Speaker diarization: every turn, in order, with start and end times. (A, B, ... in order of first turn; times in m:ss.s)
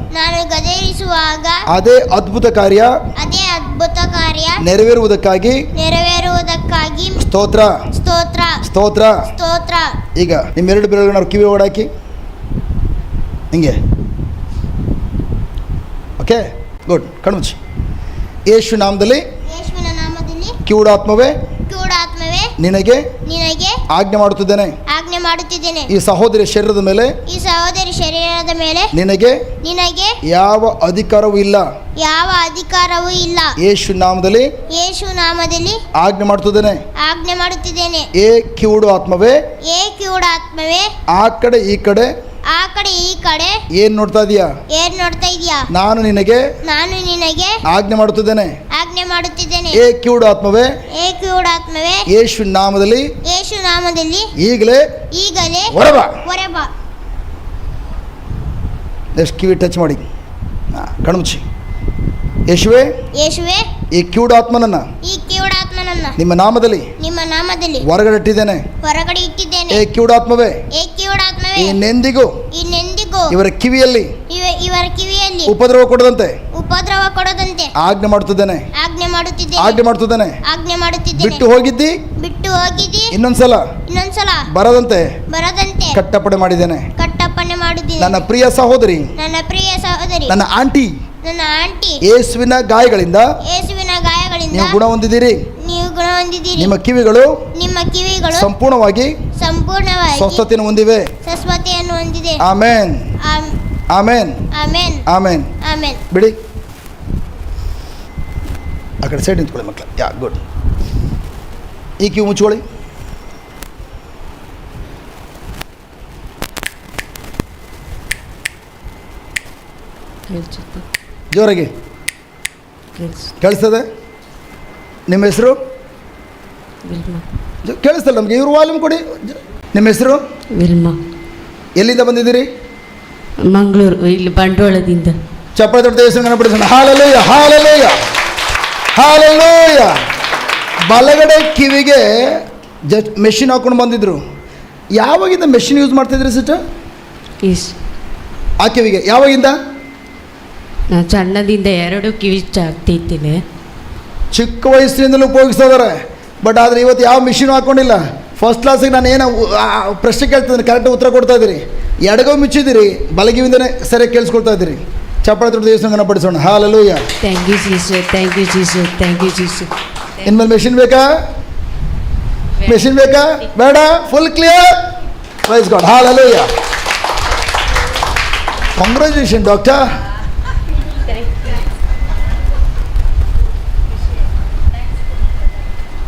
0:00.1-0:01.6 A
0:01.7-0:02.9 B
0:03.2-0:04.6 A
0:04.6-0:05.6 B
0:05.8-0:07.2 A
0:07.2-0:07.7 B
0:07.9-0:08.6 A
0:08.6-0:09.2 B
0:09.3-0:10.0 A
0:10.2-0:11.9 B
0:13.5-0:13.8 B
0:16.2-0:17.6 B
0:18.5-0:19.2 B
0:19.5-0:20.6 A
0:20.7-0:21.4 B
0:21.7-0:22.5 A
0:22.6-0:23.1 B
0:23.3-0:23.8 A
0:23.9-0:24.8 B
0:24.9-0:25.9 A
0:25.9-0:27.2 B
0:27.3-0:28.9 A
0:28.9-0:29.4 B
0:29.6-0:30.2 A
0:30.3-0:31.7 B
0:32.0-0:33.5 A
0:33.6-0:34.5 B
0:34.7-0:35.8 A
0:36.0-0:36.8 B
0:37.0-0:38.1 A
0:38.2-0:39.4 B
0:39.7-0:40.9 A
0:41.1-0:42.1 B
0:42.5-0:43.6 A
0:43.7-0:44.5 B
0:44.7-0:45.7 A
0:45.7-0:46.4 B
0:46.6-0:47.6 A
0:47.7-0:48.5 B
0:48.8-0:49.8 A
0:49.7-0:50.7 B
0:51.0-0:52.0 A
0:52.1-0:53.1 B
0:53.3-0:54.3 A
0:54.4-0:54.8 B
0:55.2-0:56.7 A
0:55.7-0:56.2 B
0:59.2-1:00.0 B
1:00.7-1:01.4 B
1:02.5-1:02.9 B
1:03.2-1:03.7 A
1:03.9-1:04.9 B
1:05.0-1:06.2 A
1:06.2-1:06.9 B
1:07.0-1:07.8 A
1:07.8-1:08.6 B
1:08.8-1:09.8 A
1:09.7-1:10.6 B
1:10.7-1:11.8 A
1:11.6-1:12.3 B
1:12.5-1:13.4 A
1:13.3-1:14.1 B
1:14.3-1:15.5 A
1:15.5-1:16.4 B
1:16.5-1:17.7 A
1:17.8-1:18.7 B
1:18.8-1:19.8 A
1:19.6-1:20.4 B
1:20.5-1:21.4 A
1:21.2-1:22.0 B
1:22.2-1:23.1 A
1:23.1-1:23.6 B
1:23.9-1:24.5 A
1:24.5-1:25.1 B
1:25.3-1:26.0 A
1:25.9-1:26.9 B
1:27.0-1:28.2 A
1:28.0-1:29.1 B
1:29.2-1:30.3 A
1:30.3-1:30.9 B
1:31.2-1:32.0 A
1:32.0-1:33.3 B
1:33.5-1:34.8 A
1:34.5-1:35.4 B
1:35.6-1:36.7 A
1:36.6-1:37.4 B
1:37.6-1:38.5 A
1:38.3-1:39.1 B
1:39.4-1:40.4 A
1:40.2-1:41.1 B
1:41.2-1:42.4 A
1:42.4-1:43.1 B
1:43.2-1:43.5 A
1:43.9-1:44.4 B
1:44.6-1:45.0 A
1:45.1-1:45.5 B
1:45.6-1:46.0 A
1:49.0-1:50.4 B
1:52.0-1:52.6 B
2:00.3-2:00.8 C
2:01.3-2:01.7 B
2:03.0-2:03.3 C
2:03.4-2:03.8 B
2:05.1-2:05.6 B
2:06.9-2:07.2 C
2:07.6-2:10.2 B
2:10.6-2:11.0 C
2:11.8-2:12.5 B
2:13.5-2:15.2 C
2:15.6-2:18.0 B
2:19.0-2:20.0 B
2:20.9-2:24.2 B
2:25.0-2:26.6 B
2:27.4-2:27.7 C
2:28.6-2:29.6 B
2:30.9-2:33.4 C
2:34.3-2:47.0 B
2:47.2-2:49.7 C
2:50.2-2:51.1 B
2:52.6-2:53.4 C
2:52.7-2:54.8 B
2:55.5-2:56.5 B
2:58.8-2:59.8 B